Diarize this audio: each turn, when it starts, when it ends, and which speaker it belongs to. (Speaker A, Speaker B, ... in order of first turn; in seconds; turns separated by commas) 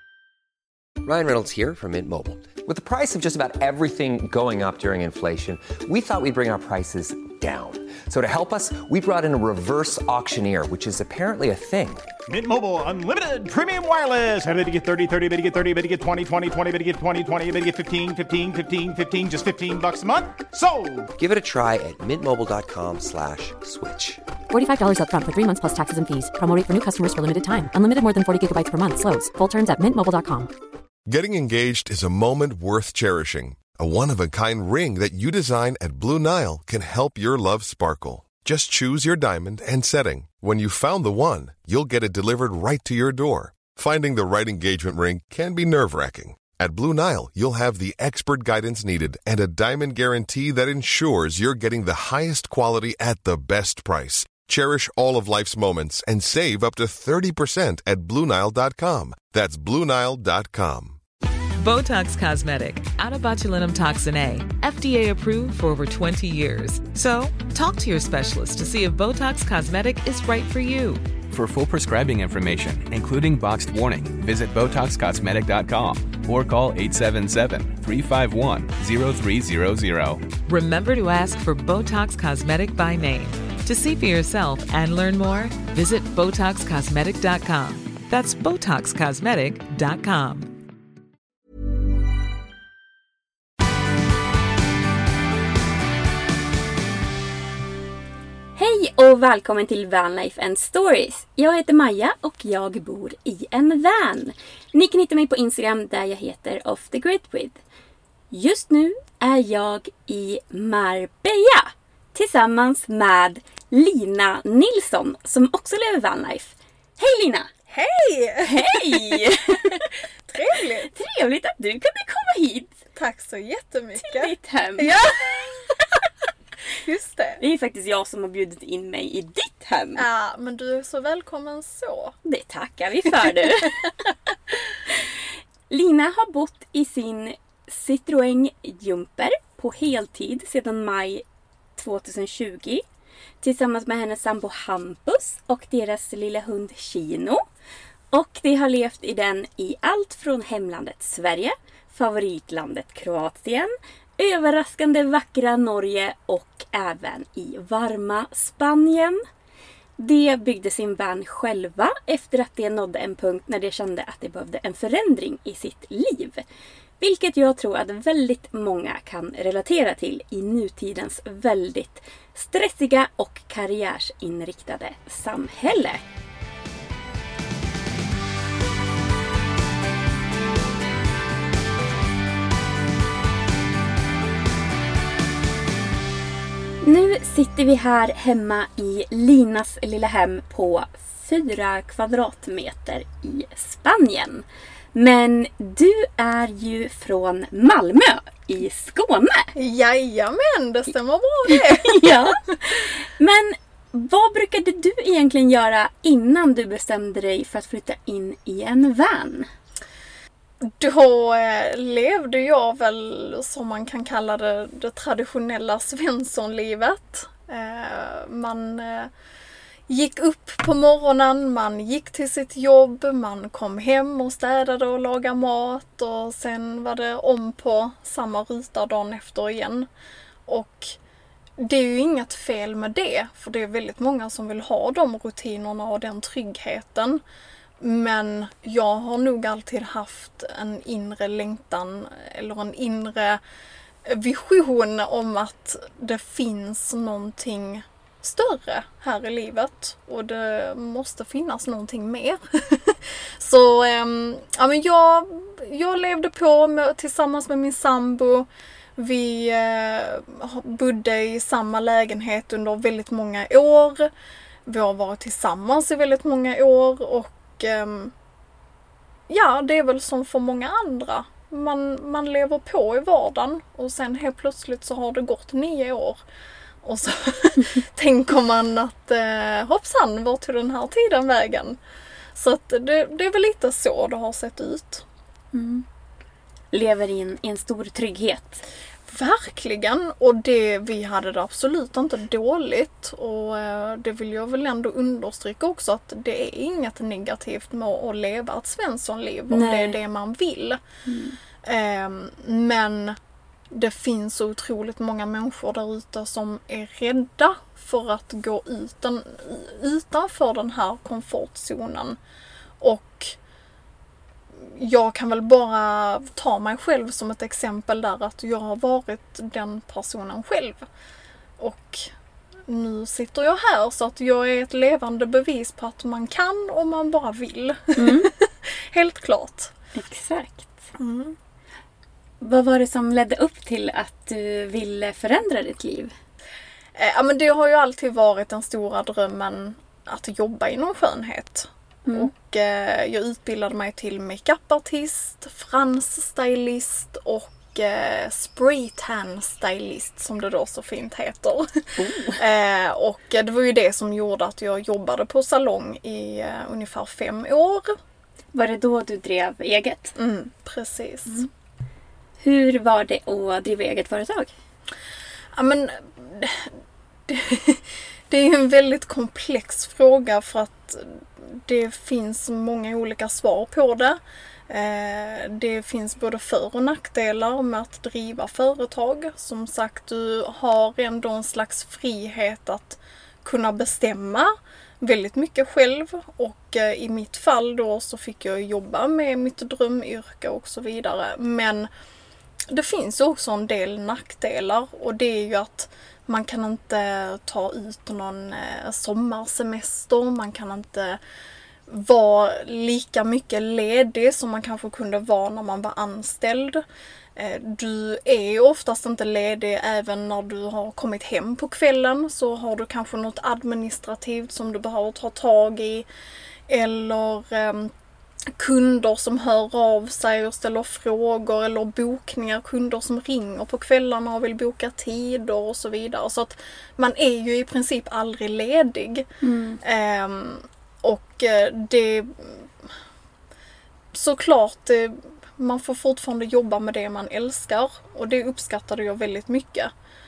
Speaker A: 1.0-12.1, Speaker B: 12.3-21.1, Speaker A: 21.2-24.2, Speaker C: 24.5-30.5, Speaker D: 31.1-61.0, Speaker E: 61.6-71.0, Speaker F: 71.3-80.2, Speaker E: 80.5-90.5, Speaker G: 98.5-107.6, Speaker G: 108.3-117.5, Speaker H: 117.7-120.9, Speaker G: 118.4-119.9, Speaker G: 120.9-122.8, Speaker H: 122.9-125.6, Speaker G: 124.0-125.0, Speaker H: 126.8-127.4, Speaker G: 127.4-130.0, Speaker H: 129.9-132.2, Speaker G: 132.2-133.9, Speaker G: 134.8-135.1, Speaker G: 135.7-141.2, Speaker G: 141.8-142.8, Speaker G: 143.4-147.4, Speaker G: 148.1-159.2, Speaker G: 160.0-166.4, Speaker G: 167.0-176.0, Speaker G: 186.8-199.5, Speaker H: 199.5-202.3, Speaker G: 201.5-209.5, Speaker H: 210.6-219.1, Speaker H: 219.9-229.9, Speaker H: 230.5-230.9, Speaker H: 231.6-237.2, Speaker H: 237.8-243.4, Speaker H: 244.0-264.1, Speaker H: 264.7-268.1, Speaker H: 269.3-276.2, Speaker H: 276.8-281.8, Speaker H: 282.3-285.0, Speaker G: 285.5-285.8, Speaker G: 286.7-288.6, Speaker H: 289.1-300.8, Speaker G: 299.5-299.9, Speaker G: 301.1-301.4, Speaker H: 301.6-303.2, Speaker H: 303.7-312.2, Speaker H: 312.8-313.4, Speaker H: 314.8-320.8, Speaker H: 321.6-322.1, Speaker H: 322.7-329.7, Speaker G: 328.0-328.3, Speaker G: 329.9-330.9, Speaker H: 331.0-331.4, Speaker G: 332.4-336.1, Speaker H: 336.9-358.0, Speaker G: 352.0-352.4, Speaker G: 358.5-360.1, Speaker H: 360.1-361.5, Speaker G: 362.4-364.5, Speaker H: 365.5-366.7, Speaker H: 367.3-391.9, Speaker H: 392.7-401.2, Speaker H: 401.9-406.8, Speaker H: 407.4-416.1, Speaker H: 416.7-417.9, Speaker H: 418.6-429.3, Speaker G: 429.4-429.8, Speaker H: 429.8-432.7, Speaker H: 434.1-439.9